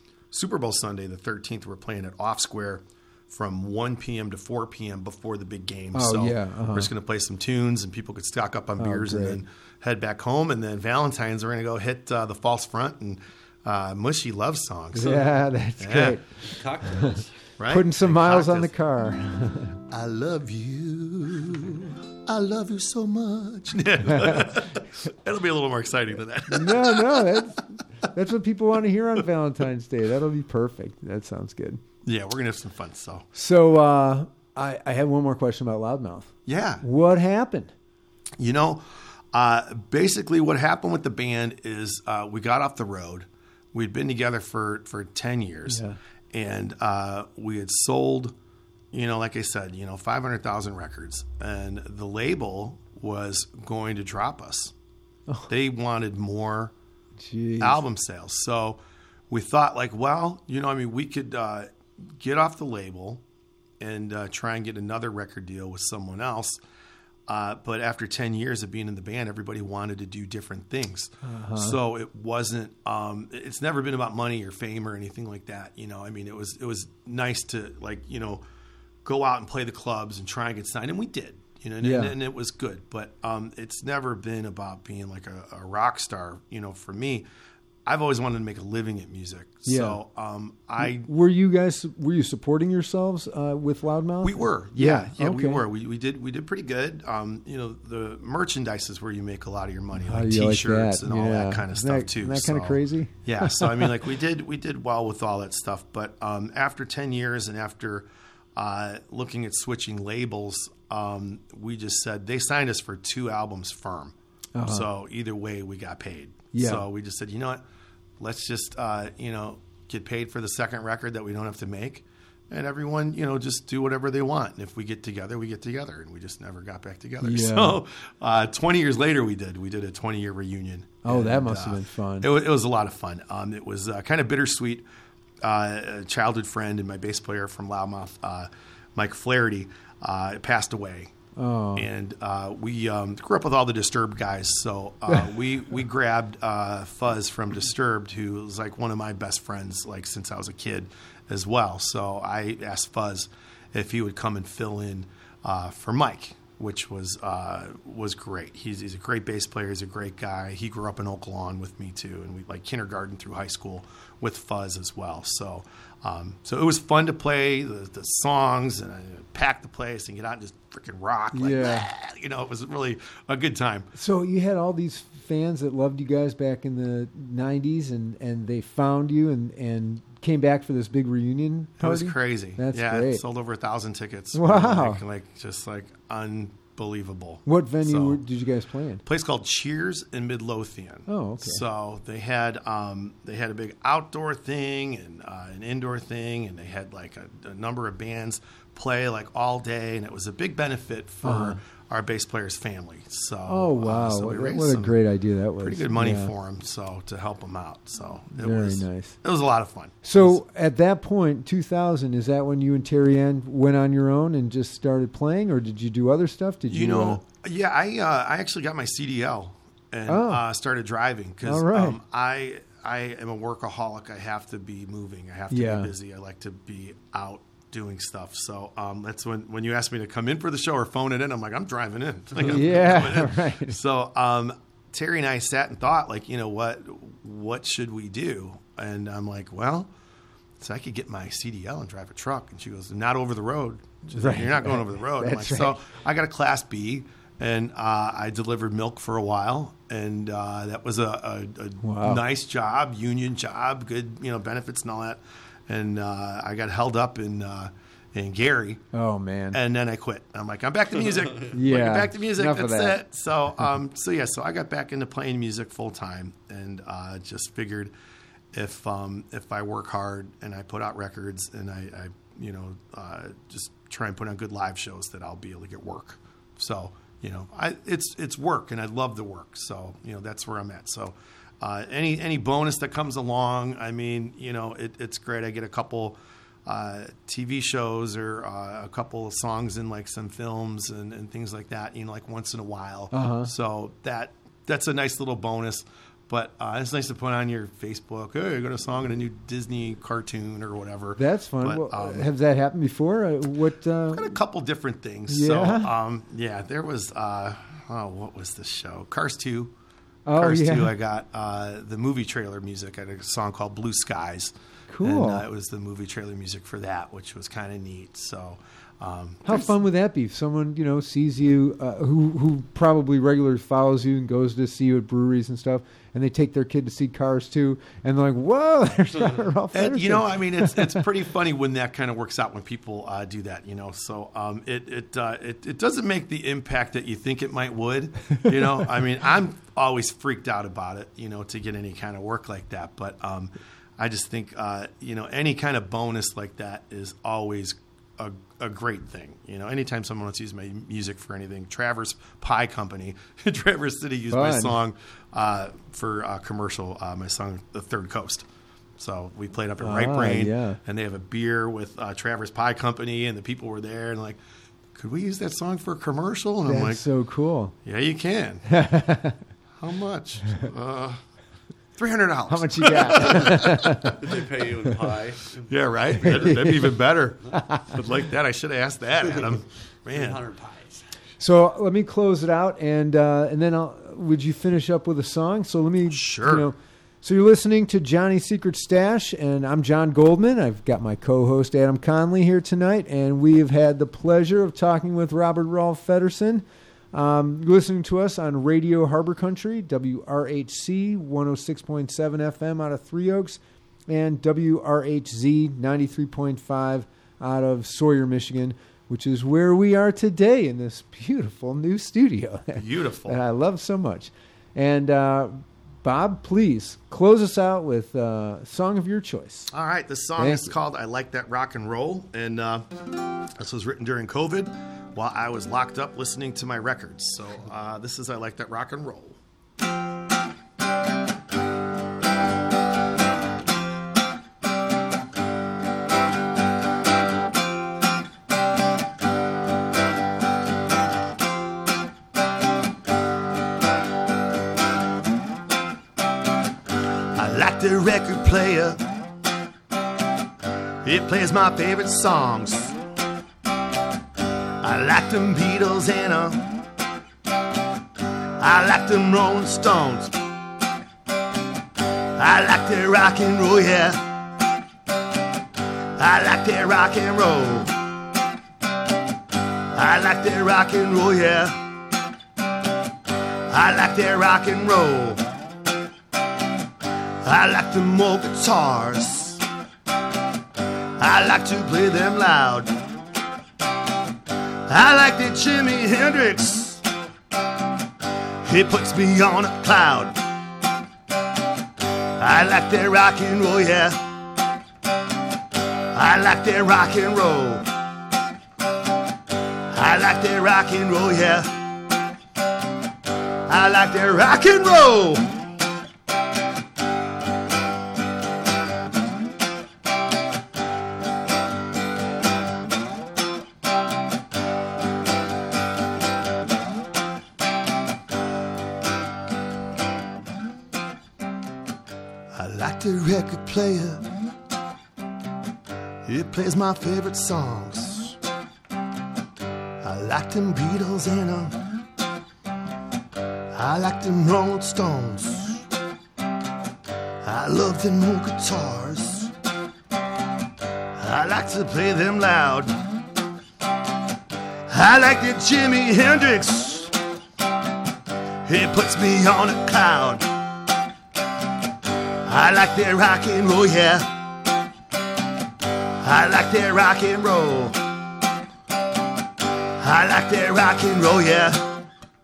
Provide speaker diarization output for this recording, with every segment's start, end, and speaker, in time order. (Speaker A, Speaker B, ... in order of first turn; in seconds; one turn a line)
Speaker A: 0.3-15.2
Speaker B: 5.9-6.9
Speaker B: 8.8-9.4
Speaker B: 14.9-16.4
Speaker C: 15.0-15.3
Speaker A: 15.8-16.2
Speaker C: 16.4-17.3
Speaker B: 17.0-19.8
Speaker A: 17.6-18.7
Speaker A: 19.9-27.6
Speaker B: 24.1-24.6
Speaker B: 26.5-31.8
Speaker A: 32.0-33.2
Speaker B: 33.3-37.7
Speaker A: 36.5-36.8
Speaker A: 38.4-48.3
Speaker B: 45.7-46.0
Speaker A: 48.9-54.7
Speaker A: 55.5-56.7
Speaker B: 57.2-57.8
Speaker A: 57.6-63.2
Speaker A: 63.8-66.6
Speaker A: 67.3-78.4
Speaker B: 71.2-71.8
Speaker A: 79.0-87.2
Speaker B: 81.8-82.1
Speaker A: 87.8-91.1
Speaker B: 89.7-90.0
Speaker B: 90.8-95.6
Speaker A: 94.2-114.1
Speaker B: 100.0-103.9
Speaker B: 114.5-114.9
Speaker A: 114.7-117.6
Speaker B: 116.5-116.8
Speaker A: 118.2-134.8
Speaker B: 127.2-127.8
Speaker B: 131.0-132.3
Speaker A: 135.4-141.1
Speaker B: 141.3-141.9
Speaker A: 141.7-173.9
Speaker B: 171.3-171.9
Speaker B: 173.9-183.2
Speaker A: 181.8-188.2
Speaker B: 184.3-185.0
Speaker B: 187.4-189.0
Speaker A: 189.0-205.0
Speaker B: 191.1-191.6
Speaker B: 201.2-201.6
Speaker B: 203.5-206.3
Speaker A: 205.6-210.4
Speaker B: 208.3-209.2
Speaker B: 210.0-217.2
Speaker A: 216.7-239.9
Speaker B: 220.1-220.4
Speaker B: 221.4-222.0
Speaker B: 225.5-225.9
Speaker B: 232.4-233.8
Speaker A: 240.6-258.8
Speaker B: 244.1-245.8
Speaker B: 251.8-252.2
Speaker B: 258.9-259.6
Speaker A: 259.5-267.9
Speaker B: 261.5-263.0
Speaker A: 268.5-302.2
Speaker B: 293.1-293.5
Speaker B: 301.2-304.3
Speaker A: 304.1-309.7
Speaker B: 305.3-305.9
Speaker B: 310.2-310.9
Speaker A: 310.4-319.7
Speaker B: 314.9-315.4
Speaker B: 319.4-331.0
Speaker C: 329.1-329.4
Speaker A: 329.7-364.4
Speaker B: 354.3-354.8
Speaker B: 359.8-360.8
Speaker A: 364.9-367.0
Speaker B: 366.6-367.7
Speaker A: 367.8-368.6
Speaker B: 368.7-369.4
Speaker A: 369.8-371.2
Speaker A: 371.9-374.3
Speaker B: 372.5-374.2
Speaker C: 374.0-376.6
Speaker A: 375.6-380.4
Speaker B: 376.2-376.9
Speaker B: 377.5-377.9
Speaker C: 380.1-381.0
Speaker B: 381.4-419.7
Speaker A: 386.1-386.7
Speaker A: 412.8-413.4
Speaker A: 419.7-422.9
Speaker B: 420.4-420.8
Speaker A: 423.6-429.4
Speaker A: 447.3-449.0
Speaker A: 451.0-453.0
Speaker A: 454.8-456.7
Speaker A: 458.6-460.4
Speaker A: 462.3-464.3
Speaker A: 466.1-468.1
Speaker A: 469.9-471.9
Speaker A: 473.7-475.4
Speaker A: 477.4-479.6
Speaker A: 481.2-483.0
Speaker A: 484.9-487.0
Speaker A: 488.6-490.4
Speaker A: 492.4-494.3
Speaker A: 496.1-497.9
Speaker A: 499.9-501.9
Speaker A: 503.6-505.5
Speaker A: 522.5-524.3
Speaker A: 526.2-528.4
Speaker A: 530.0-531.9
Speaker A: 533.7-535.9
Speaker A: 537.4-539.5
Speaker A: 541.1-543.0
Speaker A: 544.9-547.2
Speaker A: 548.6-550.6
Speaker A: 552.4-554.4
Speaker A: 556.2-558.1
Speaker A: 560.0-562.0